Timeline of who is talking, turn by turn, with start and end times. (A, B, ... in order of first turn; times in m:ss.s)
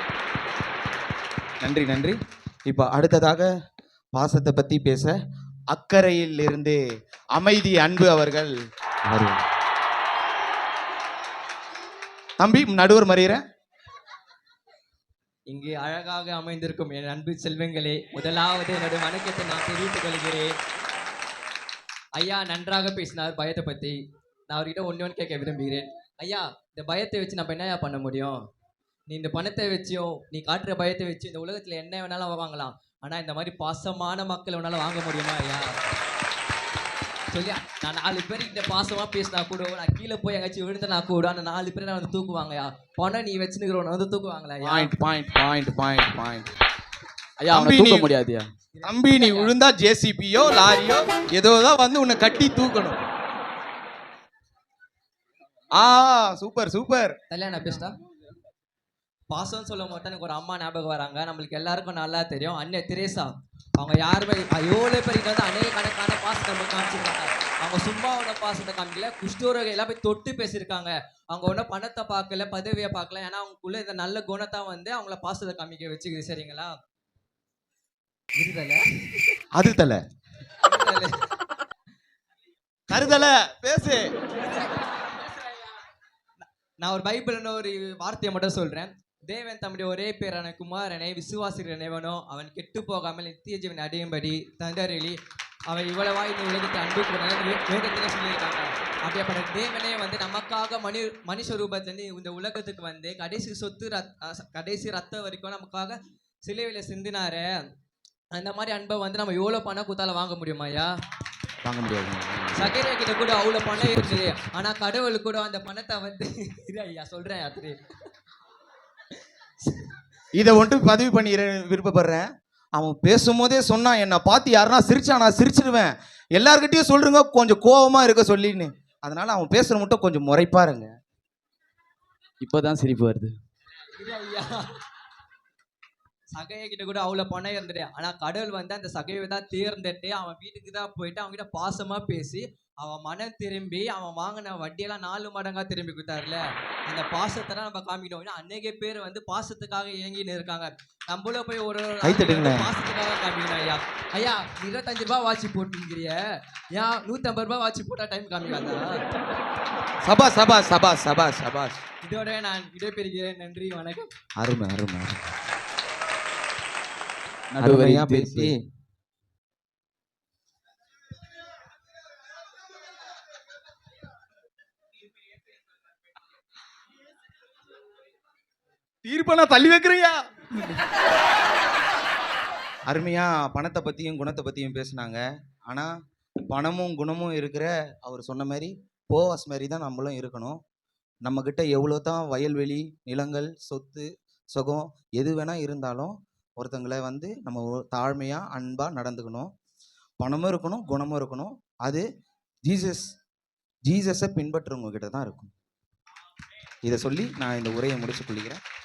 0:01.6-0:03.5 A
0:04.1-0:05.2 A
0:05.7-0:06.8 A
0:07.4-0:08.5 A
0:09.1-0:09.5 A
0:12.4-0:13.4 A
0:15.5-0:20.5 B
0:22.2-0:24.0 B
0:24.5-0:28.4 B
0:29.1-0:35.8 B
0:37.3-0:44.9 B
0:44.6-0:46.5 A
0:47.4-0:48.4 C
0:47.5-0:48.1 A
0:48.8-0:49.5 B
0:48.8-0:53.0 A
0:55.8-0:57.2 A
0:57.3-0:58.0 B
0:59.3-1:16.8 B
1:18.4-1:19.4 B
1:19.5-1:20.0 A
1:20.6-1:21.2 B
1:22.9-1:24.1 A
1:24.4-1:25.5 B
1:26.8-1:35.2 B
1:35.7-1:47.6 B
1:48.3-1:50.9 B
1:51.6-1:52.8 A
1:52.6-1:57.8 B
1:53.8-1:54.4 A
2:00.4-2:10.9 A
2:12.4-2:13.3 C
2:14.0-2:14.7 B
2:16.3-2:36.2 B
2:32.0-2:32.7 A
2:36.7-2:39.0 B
2:40.0-2:41.8 A
2:42.0-2:44.1 B
2:44.4-2:45.2 A
2:47.5-2:48.5 C
2:47.6-2:48.5 A
2:59.0-3:00.8 A
3:02.9-3:05.9 A
3:06.5-3:10.6 A
3:11.2-3:19.5 A
3:20.2-3:22.0 A
3:22.6-3:23.2 A
3:23.8-3:25.5 A
3:26.8-3:28.6 A